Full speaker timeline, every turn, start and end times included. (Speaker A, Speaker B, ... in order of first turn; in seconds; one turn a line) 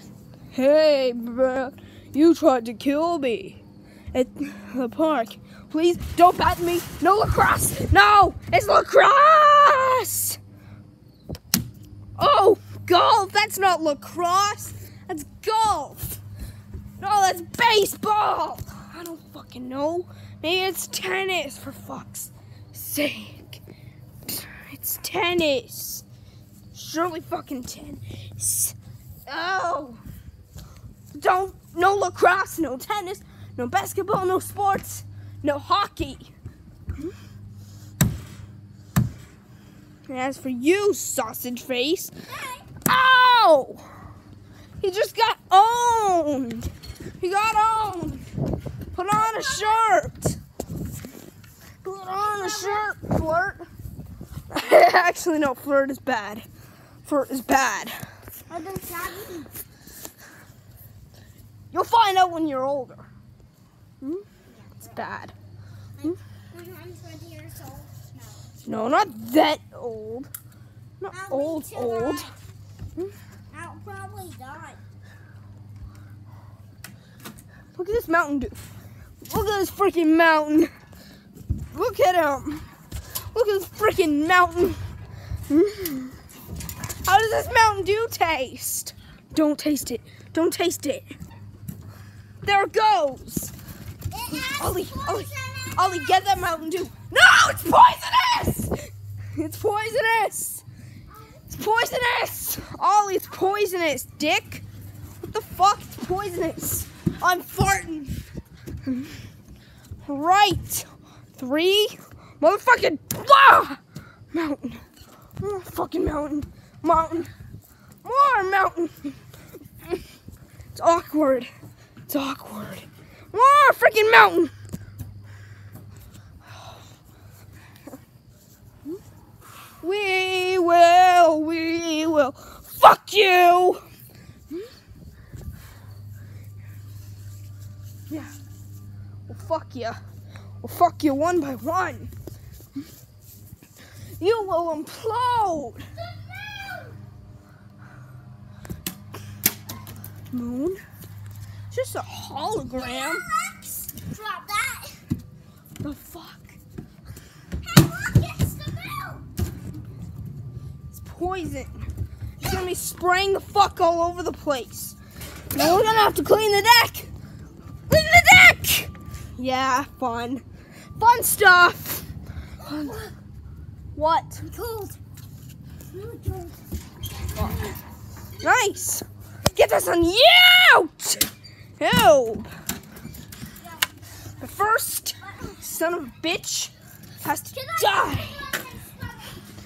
Speaker A: 0.5-3.6
Speaker A: 4.1-10.4
Speaker A: 12.2-16.2
Speaker A: 17.0-23.6
Speaker A: 24.3-26.0
Speaker A: 26.7-28.8
Speaker A: 29.3-30.0
Speaker A: 31.1-36.3
Speaker A: 40.1-42.1
Speaker B: 42.3-42.6
Speaker A: 42.8-43.9
Speaker A: 44.8-48.2
Speaker A: 48.9-50.4
Speaker B: 49.1-49.9
Speaker A: 51.8-53.6
Speaker B: 52.2-53.0
Speaker A: 54.5-56.5
Speaker A: 57.0-58.0
Speaker B: 58.5-59.5
Speaker A: 61.7-63.1
Speaker A: 64.0-64.3
Speaker B: 64.5-65.0
Speaker A: 64.8-65.3
Speaker B: 66.0-68.5
Speaker A: 68.6-70.3
Speaker A: 71.0-72.3
Speaker B: 71.1-72.4
Speaker B: 73.5-74.8
Speaker A: 77.8-78.7
Speaker A: 79.3-80.7
Speaker A: 81.7-82.7
Speaker A: 83.3-84.8
Speaker A: 85.5-86.2
Speaker A: 87.0-91.1
Speaker A: 92.4-93.5
Speaker B: 94.1-96.2
Speaker A: 94.3-98.8
Speaker A: 99.3-100.6
Speaker A: 101.5-104.6
Speaker A: 105.2-108.2
Speaker A: 108.9-109.1
Speaker A: 110.0-113.8
Speaker A: 114.3-114.8
Speaker A: 115.4-117.3
Speaker A: 118.0-119.1
Speaker A: 120.7-121.5
Speaker A: 122.1-124.5
Speaker A: 129.8-133.8
Speaker A: 139.3-140.0
Speaker A: 140.6-142.1
Speaker A: 144.2-145.9
Speaker B: 146.2-147.0
Speaker A: 150.3-150.8
Speaker A: 151.7-153.3
Speaker B: 152.8-155.1
Speaker A: 155.8-156.6
Speaker B: 157.6-159.2
Speaker A: 160.9-161.9
Speaker A: 162.4-165.0
Speaker A: 165.5-167.1
Speaker A: 167.9-170.4
Speaker A: 171.0-172.1
Speaker A: 172.6-173.1
Speaker A: 173.9-174.5
Speaker B: 174.4-175.0
Speaker B: 175.9-176.6
Speaker B: 177.3-177.7
Speaker A: 178.4-182.5
Speaker A: 184.4-188.5
Speaker B: 187.6-189.3